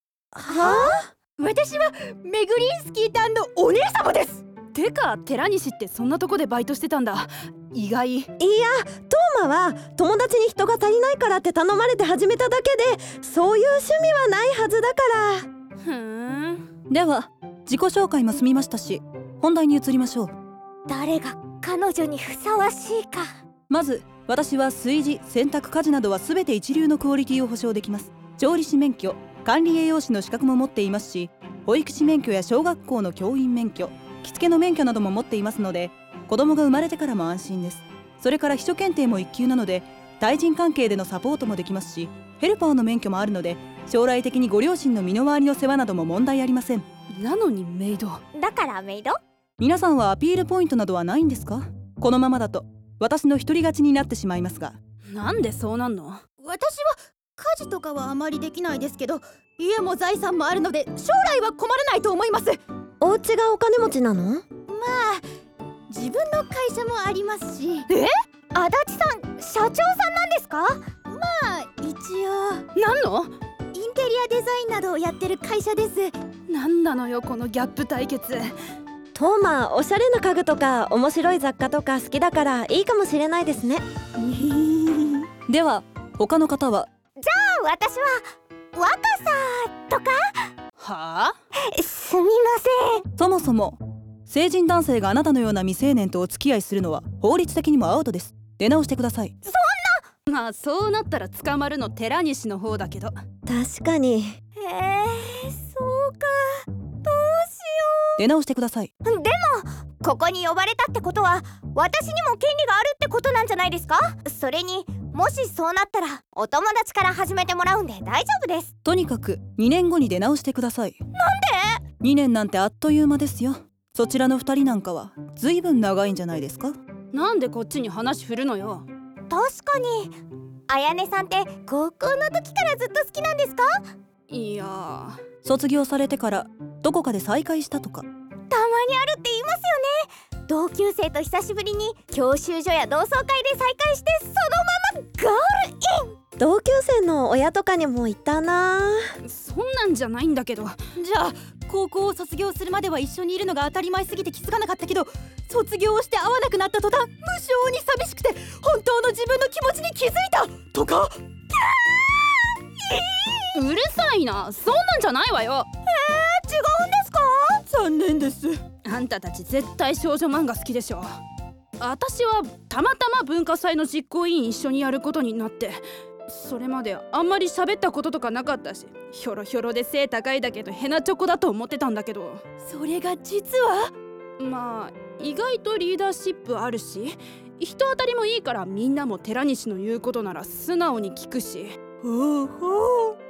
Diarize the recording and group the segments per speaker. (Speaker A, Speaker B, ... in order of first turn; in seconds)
Speaker A: 0.3-4.4, 56.4-62.6, 64.7-65.2, 65.9-68.1, 71.1-72.7, 73.7-76.1, 84.3-85.1, 151.0-162.3, 162.8-163.4, 165.9-168.6, 182.6-183.9, 192.0-193.1
Speaker B: 0.5-1.0, 20.9-23.3, 48.3-49.2, 68.5-70.8, 87.2-90.4, 91.7-93.0, 99.4-100.0, 104.5-108.2, 109.0-118.7, 121.1-121.8, 129.3-130.2, 130.7-133.8, 138.5-146.2
Speaker C: 0.6-0.9, 8.4-15.5, 63.0-64.4, 79.1-83.8, 103.5-104.4, 146.4-149.1
Speaker D: 4.7-8.3, 15.8-16.6, 47.1-48.2, 55.1-56.2, 72.8-73.3, 76.5-78.5, 90.8-91.3, 100.3-103.2, 127.1-128.8, 134.3-135.2, 149.2-150.8, 163.5-165.7, 168.8-171.1, 171.8-182.4, 184.4-191.8
Speaker E: 16.9-20.3, 23.7-46.9, 49.6-54.8, 85.5-86.9, 93.2-99.4, 108.2-108.9, 118.8-121.0, 122.0-126.8, 135.4-138.1